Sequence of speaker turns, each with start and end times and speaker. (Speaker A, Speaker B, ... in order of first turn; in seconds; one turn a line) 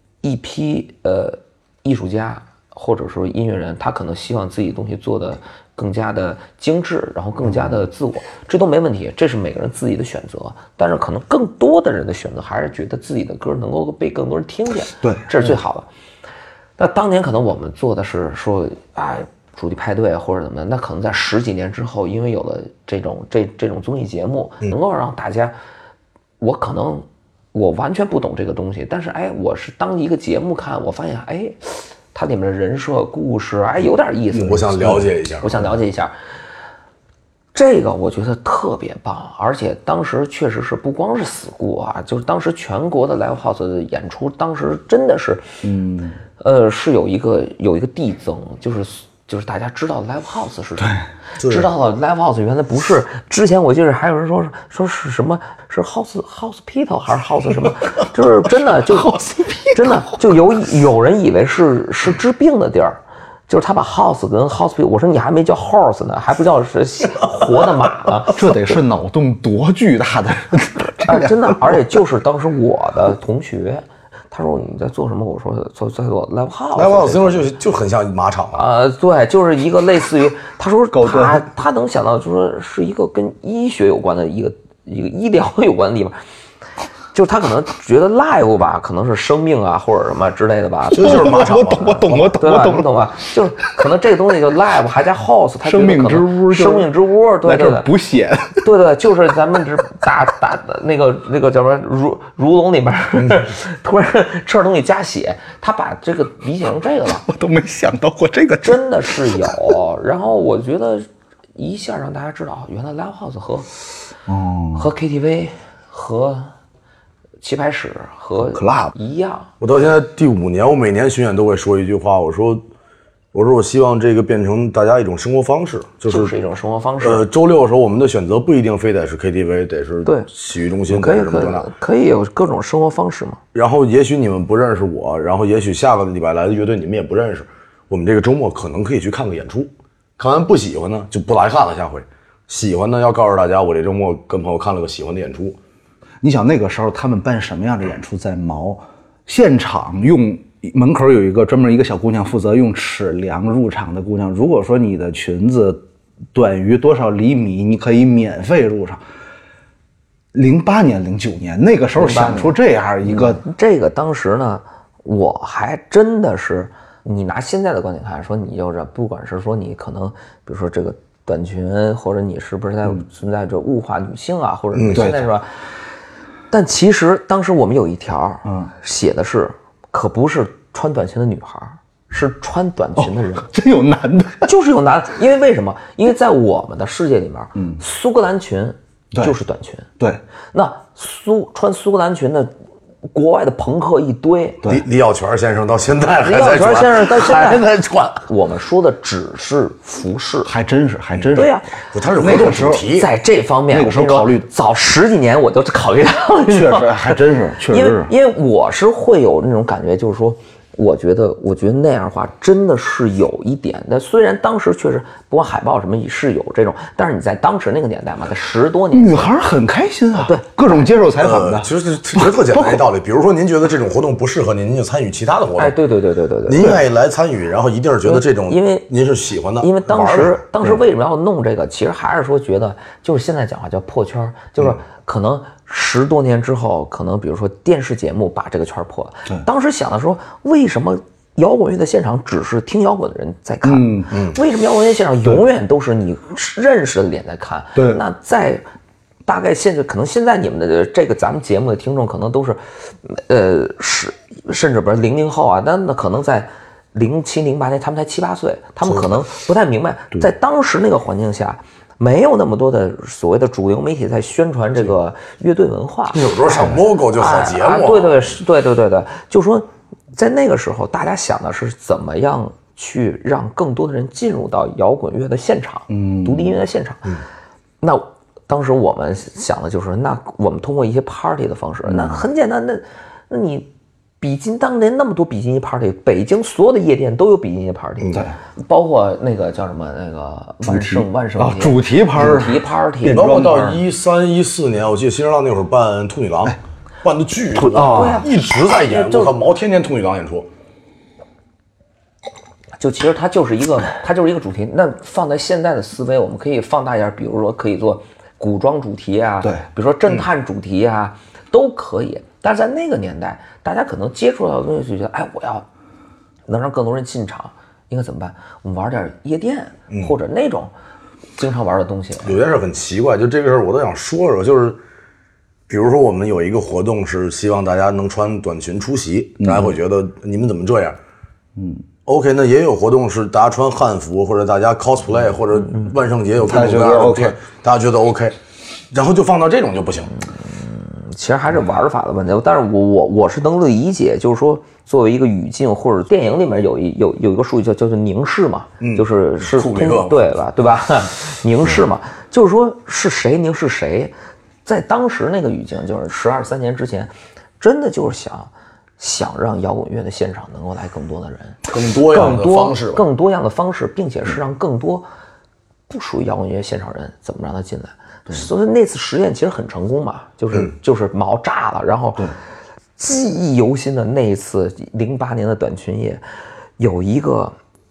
Speaker A: 0.2-15.9
Speaker B: 15.0-15.3
Speaker A: 16.8-25.6
Speaker A: 26.4-36.1
Speaker C: 34.3-35.7
Speaker A: 37.5-45.5
Speaker B: 45.6-46.2
Speaker A: 46.4-68.5
Speaker C: 51.4-51.7
Speaker B: 58.9-60.1
Speaker B: 68.3-71.9
Speaker A: 70.9-77.5
Speaker C: 76.8-78.7
Speaker A: 78.5-86.2
Speaker B: 80.9-81.5
Speaker A: 87.1-91.3
Speaker C: 90.9-92.4
Speaker B: 90.9-92.9
Speaker A: 92.3-97.9
Speaker B: 95.6-98.7
Speaker A: 98.6-107.2
Speaker B: 107.2-109.6
Speaker A: 108.6-113.7
Speaker B: 114.3-114.9
Speaker A: 114.8-116.5
Speaker A: 117.4-119.5
Speaker B: 118.5-118.9
Speaker C: 119.6-122.6
Speaker C: 123.3-126.3
Speaker A: 126.1-127.3
Speaker C: 127.0-131.7
Speaker A: 130.1-130.3
Speaker A: 130.9-133.4
Speaker C: 133.6-145.6
Speaker B: 146.2-155.8
Speaker B: 156.3-159.0
Speaker B: 160.3-163.4
Speaker A: 162.0-175.6
Speaker C: 174.8-175.0
Speaker B: 174.9-175.3
Speaker A: 176.5-183.5
Speaker B: 178.4-178.7
Speaker B: 183.0-184.5
Speaker A: 184.4-189.9
Speaker A: 190.5-192.5
Speaker A: 193.1-194.6
Speaker C: 194.7-198.2
Speaker A: 196.2-197.7
Speaker A: 198.2-200.5
Speaker B: 200.4-201.5
Speaker A: 201.3-201.7
Speaker C: 201.9-203.1
Speaker B: 202.2-202.9
Speaker A: 202.9-219.3
Speaker B: 203.7-204.5
Speaker B: 206.5-208.1
Speaker B: 218.9-222.8
Speaker A: 220.2-220.9
Speaker C: 221.2-225.8
Speaker A: 225.6-226.8
Speaker C: 226.5-230.4
Speaker A: 228.1-228.9
Speaker A: 229.6-248.7
Speaker B: 243.6-244.1
Speaker C: 244.1-244.4
Speaker B: 247.8-248.0
Speaker A: 249.3-277.1
Speaker C: 258.9-259.2
Speaker C: 266.1-268.4
Speaker B: 275.9-276.6
Speaker A: 277.8-293.6
Speaker B: 281.9-282.2
Speaker B: 290.6-293.8
Speaker C: 293.0-300.5
Speaker B: 297.6-298.3
Speaker A: 297.7-299.4
Speaker A: 302.8-315.7
Speaker A: 316.5-320.7
Speaker A: 321.4-322.4
Speaker C: 322.2-324.8
Speaker C: 325.7-331.0
Speaker B: 329.4-329.7
Speaker B: 331.6-331.8
Speaker C: 332.1-338.4
Speaker B: 336.4-337.4
Speaker C: 338.9-340.1
Speaker A: 340.2-354.1
Speaker C: 348.8-350.3
Speaker A: 354.6-365.1
Speaker C: 361.7-363.0
Speaker A: 365.9-372.3
Speaker A: 373.0-376.2
Speaker A: 376.8-377.6